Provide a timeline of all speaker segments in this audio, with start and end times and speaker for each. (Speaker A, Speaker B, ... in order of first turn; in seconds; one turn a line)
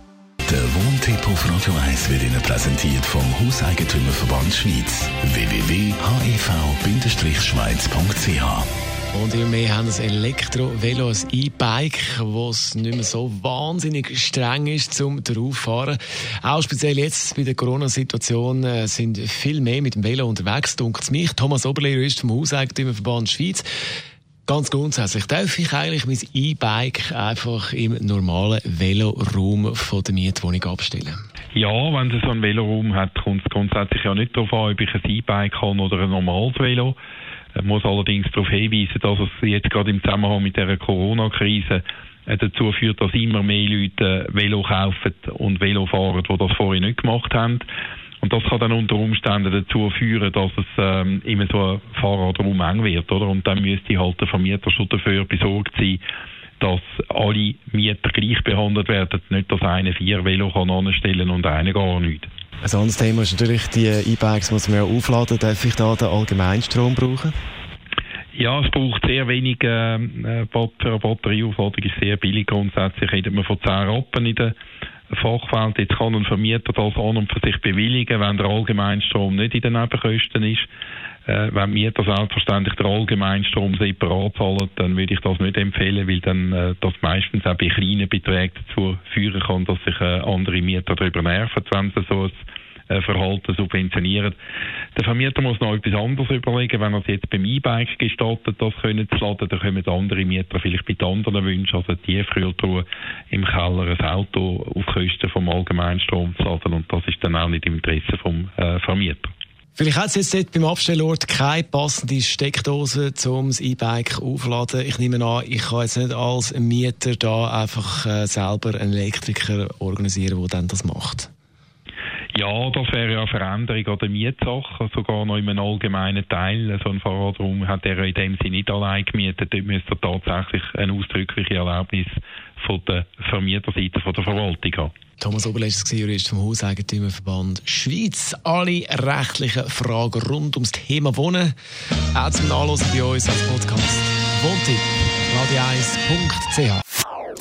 Speaker A: 0.5-8.7
Speaker B: 9.1-23.7
Speaker B: 24.5-31.2
Speaker C: 31.5-37.0
Speaker C: 37.5-47.6
Speaker C: 48.2-56.0
Speaker C: 56.6-62.3
Speaker B: 62.6-67.3
Speaker C: 68.3-74.5
Speaker C: 75.1-80.7
Speaker C: 81.3-92.3
Speaker C: 92.9-94.4
Speaker C: 94.9-109.3
Speaker B: 109.8-121.3
Speaker C: 122.3-134.9
Speaker B: 135.2-141.6
Speaker B: 142.1-146.8